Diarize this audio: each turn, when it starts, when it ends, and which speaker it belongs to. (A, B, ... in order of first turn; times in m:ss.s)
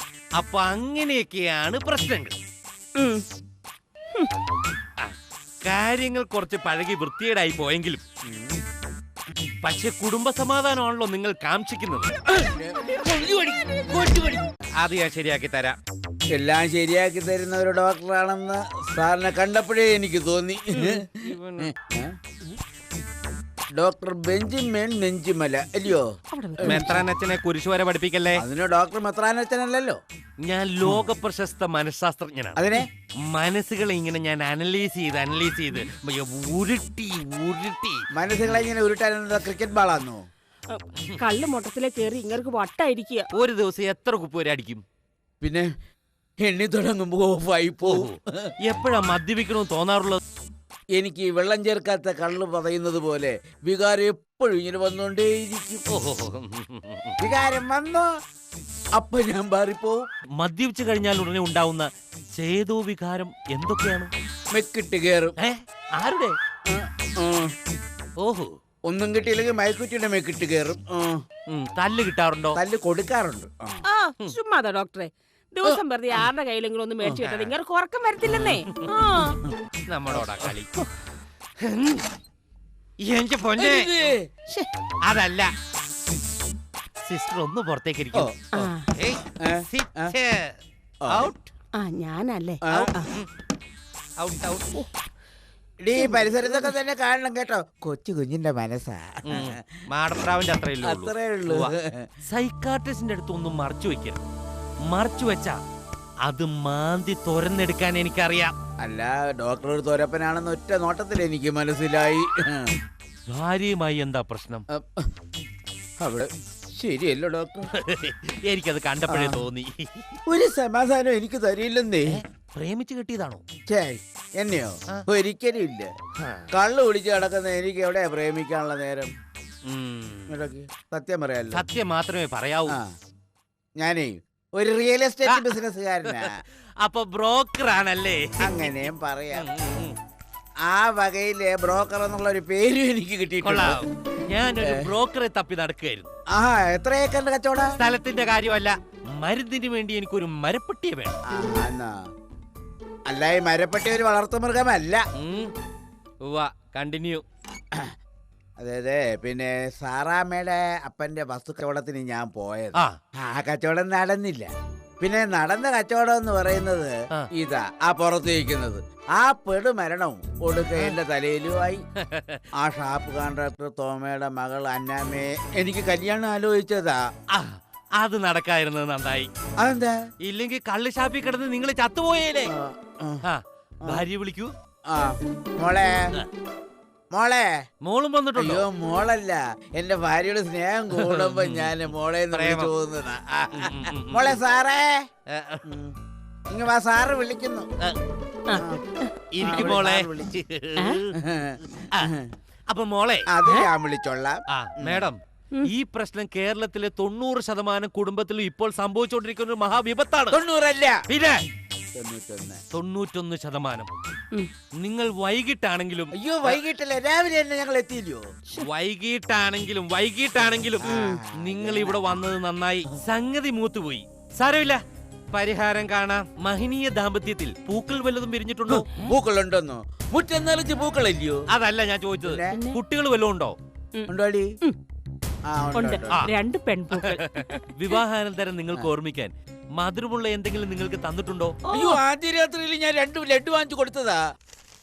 0:00.4-0:02.4 A
0:03.0-0:03.2 B
0:05.0-0:08.0 A
0:08.3-0:08.6 C
0:09.6-0:12.1 A
0:12.3-0:14.4 C
0:14.8-0:15.8 A
0:16.3-0:22.2 C
0:20.9-0:21.7 A
0:23.8-0:26.1 C
0:26.3-0:26.9 B
0:26.6-0:27.0 C
0:26.6-0:28.4 A
0:28.4-0:30.0 C
0:30.4-0:32.6 A
0:30.8-0:31.1 C
0:32.6-0:32.9 C
0:33.3-0:38.0 A
0:38.2-0:40.2 C
0:40.7-0:43.3 B
0:43.3-0:44.8 A
0:45.4-0:45.7 C
0:46.4-0:48.5 C
0:47.8-0:50.2 A
0:51.0-0:55.8 C
0:55.9-0:57.2 A
0:57.2-0:58.1 C
0:59.0-1:00.0 C
1:00.4-1:04.1 A
1:04.5-1:05.4 C
1:05.4-1:06.3 A
1:06.7-1:07.5 C
1:08.2-1:08.5 A
1:08.9-1:11.2 C
1:11.5-1:12.6 A
1:12.6-1:13.8 C
1:13.9-1:19.4 B
1:19.9-1:20.7 A
1:20.1-1:20.5 C
1:21.7-1:22.0 A
1:23.0-1:23.9 A
1:23.6-1:24.4 C
1:25.1-1:25.5 A
1:27.1-1:29.2 A
1:28.5-1:28.8 B
1:29.4-1:30.1 C
1:29.7-1:30.6 A
1:31.0-1:31.3 C
1:31.1-1:31.5 A
1:31.8-1:33.1 B
1:32.7-1:33.3 A
1:34.2-1:34.7 A
1:35.8-1:39.7 C
1:36.0-1:36.7 B
1:39.3-1:41.7 A
1:40.8-1:42.0 C
1:42.3-1:44.2 A
1:44.9-1:45.6 A
1:46.3-1:48.6 A
1:48.8-1:52.8 C
1:53.3-1:54.7 A
1:54.7-1:55.1 C
1:56.0-1:57.7 C
1:57.8-2:00.0 A
1:59.1-1:59.4 C
2:00.3-2:02.2 C
2:02.1-2:03.4 A
2:03.7-2:05.9 C
2:06.5-2:09.1 C
2:09.7-2:10.4 A
2:10.3-2:11.6 C
2:11.5-2:12.8 A
2:13.8-2:16.4 C
2:15.3-2:15.5 A
2:16.8-2:18.7 A
2:18.4-2:19.5 C
2:19.3-2:20.0 A
2:20.7-2:23.8 C
2:23.4-2:26.1 A
2:24.6-2:24.9 C
2:26.3-2:27.8 C
2:27.8-2:31.2 A
2:31.3-2:32.0 C
2:33.1-2:35.0 C
2:35.2-2:35.5 A
2:36.2-2:37.2 A
2:38.6-2:44.5 C
2:45.0-2:51.8 C
2:52.1-2:52.4 A
2:52.6-2:57.0 C
2:57.3-2:59.3 A
2:59.6-3:00.0 C
3:00.2-3:02.5 A
3:02.5-3:03.2 C
3:03.3-3:04.5 A
3:04.9-3:06.1 C
3:07.1-3:07.5 C
3:07.8-3:08.6 A
3:08.4-3:15.0 C
3:11.0-3:11.8 A
3:12.3-3:12.7 A
3:13.6-3:14.4 A
3:15.3-3:15.6 A
3:15.6-3:16.0 C
3:16.5-3:17.7 C
3:18.5-3:19.1 B
3:18.6-3:18.8 C
3:19.3-3:21.1 A
3:19.4-3:20.3 C
3:21.2-3:22.3 C
3:22.7-3:23.3 A
3:23.3-3:25.1 C
3:24.5-3:30.4 A
3:30.3-3:31.0 C
3:31.1-3:31.4 A
3:32.0-3:32.6 C
3:32.7-3:33.9 A
3:34.8-3:36.6 A
3:36.2-3:38.2 C
3:38.6-3:44.8 A
3:40.8-3:42.1 C
3:40.9-3:41.2 B
3:45.3-3:48.9 A
3:48.7-3:51.4 C
3:51.5-3:53.6 A
3:52.2-3:52.6 C
3:52.5-3:52.8 B
3:54.0-3:54.8 B
3:54.1-3:54.5 C
3:55.5-3:56.2 C
3:55.8-3:57.6 B
3:57.0-4:01.6 A
4:01.7-4:02.0 B
4:01.7-4:04.2 C